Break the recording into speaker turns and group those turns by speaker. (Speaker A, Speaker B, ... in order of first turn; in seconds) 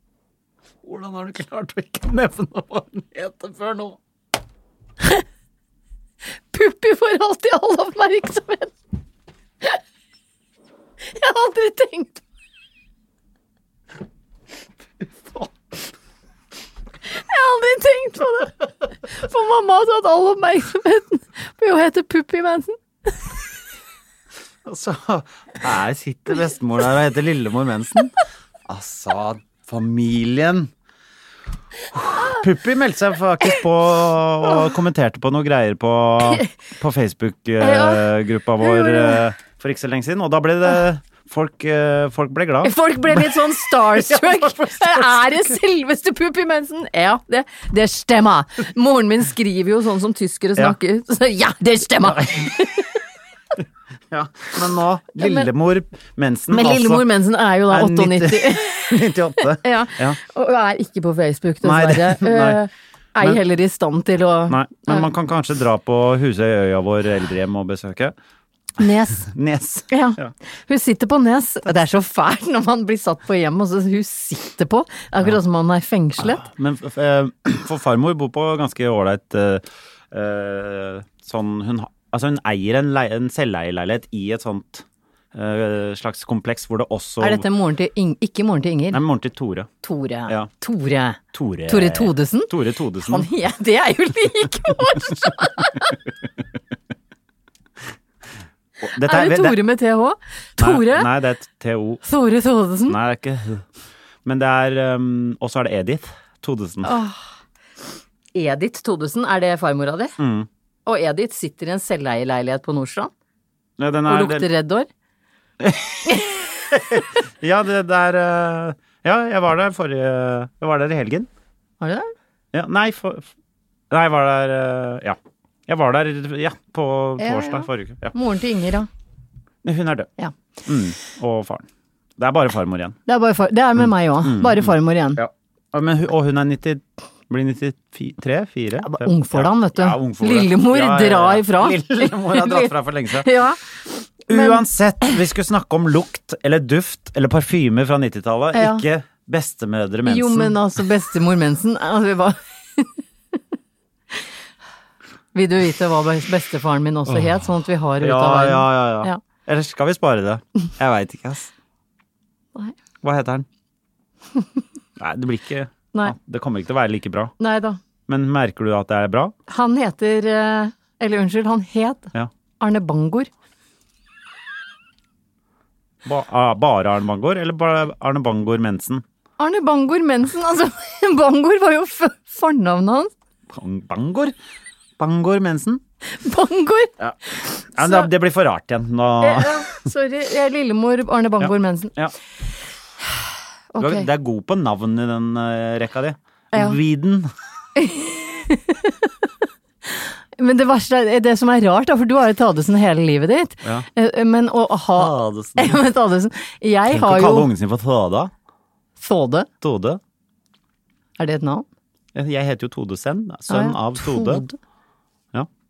Speaker A: 0.8-4.0, 24.6-28.1, 28.6-30.7, 31.9-45.4, 52.0-52.5, 54.1-57.1, 57.7-60.2, 61.6-62.6, 64.5-68.1, 69.1-70.3, 76.2-87.4, 88.9-89.7, 91.3-93.3, 98.8-99.6, 100.6-102.0, 102.9-103.6, 104.2-106.9, 110.2-110.5, 113.8-114.5, 115.6-121.3, 122.5-123.3, 123.9-128.1, 129.6-130.1, 130.7-131.7, 132.2-133.0, 134.2-143.3, 144.3-150.6, 157.1-157.4, 158.0-161.5, 163.0-163.4, 165.0-167.3, 168.1-169.3, 176.0-179.0, 183.5-184.3, 185.0-185.8, 187.0-189.7, 191.4-192.1, 193.8-197.3, 204.9-205.8, 206.9-208.3, 209.6-210.0, 212.1-214.4
Speaker B: 6.5-8.7, 11.1-12.2, 17.1-23.2, 37.6-39.2, 42.6-53.0, 55.2-55.5, 56.5-65.1, 68.8-69.3, 69.9-76.4, 87.2-89.0, 89.8-96.0, 99.0-101.1, 102.0-103.0, 106.8-107.2, 108.3-110.2, 110.8-113.1, 114.0-114.9, 121.8-122.1, 127.2-128.9, 133.1-135.2, 138.8-143.6, 144.3-145.1, 148.5-148.8, 150.1-152.9, 155.3-159.2, 167.4-167.8, 169.5-173.3, 179.4-183.1, 186.1-186.9, 187.6-188.1, 189.2-191.9, 193.7-194.1, 196.5-196.8, 197.8-199.3, 199.8-207.5, 209.0-209.5, 211.2-211.7, 213.5-214.6